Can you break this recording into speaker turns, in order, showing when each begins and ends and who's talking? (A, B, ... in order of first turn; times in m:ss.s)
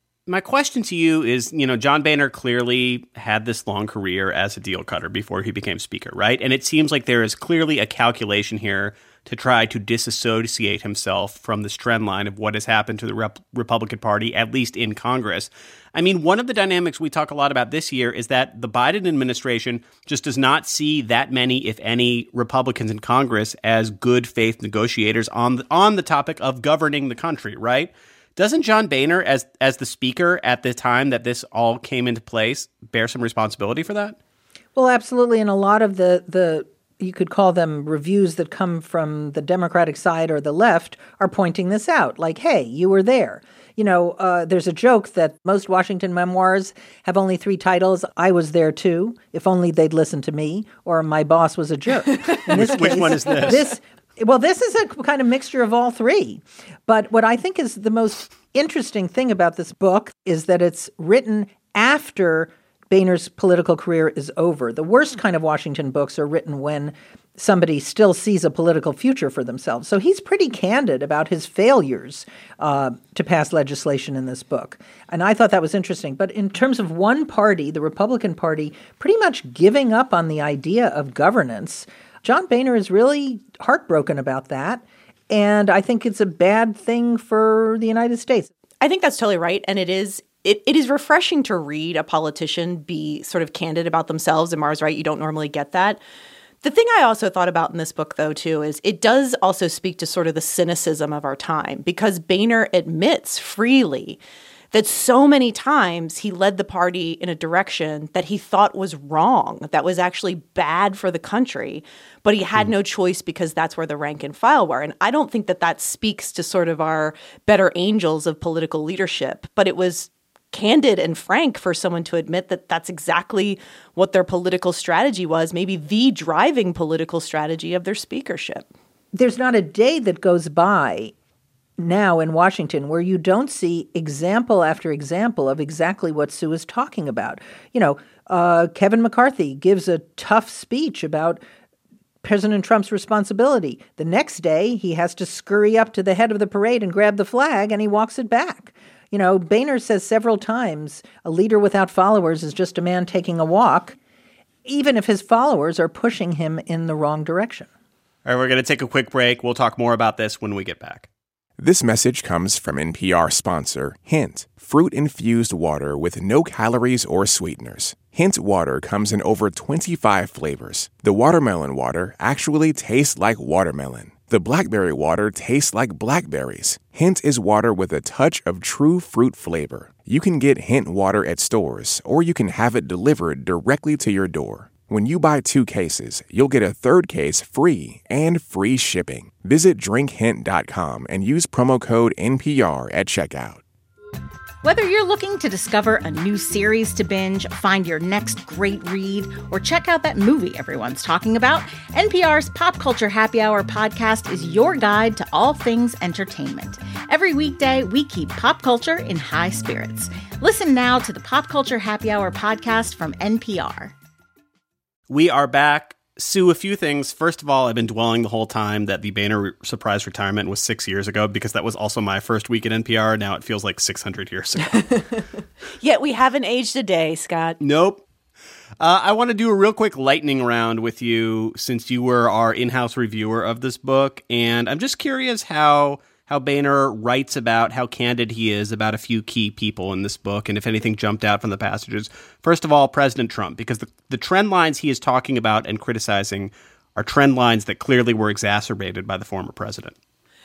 0:00.3-0:34.2 A
0:34.8-1:28.5 B
0:52.5-0:53.6 A
1:28.8-1:36.0 C
1:36.6-1:44.2 C
1:44.7-2:08.7 C
2:09.2-2:11.1 B
2:11.8-2:21.4 B
2:22.2-2:34.0 B
2:34.7-2:37.7 B
2:38.2-2:41.1 A
2:41.6-3:13.6 D
3:14.6-3:33.9 E
3:35.1-3:45.0 A
3:45.8-3:47.6 C
3:47.6-3:48.0 A
3:48.8-4:09.9 A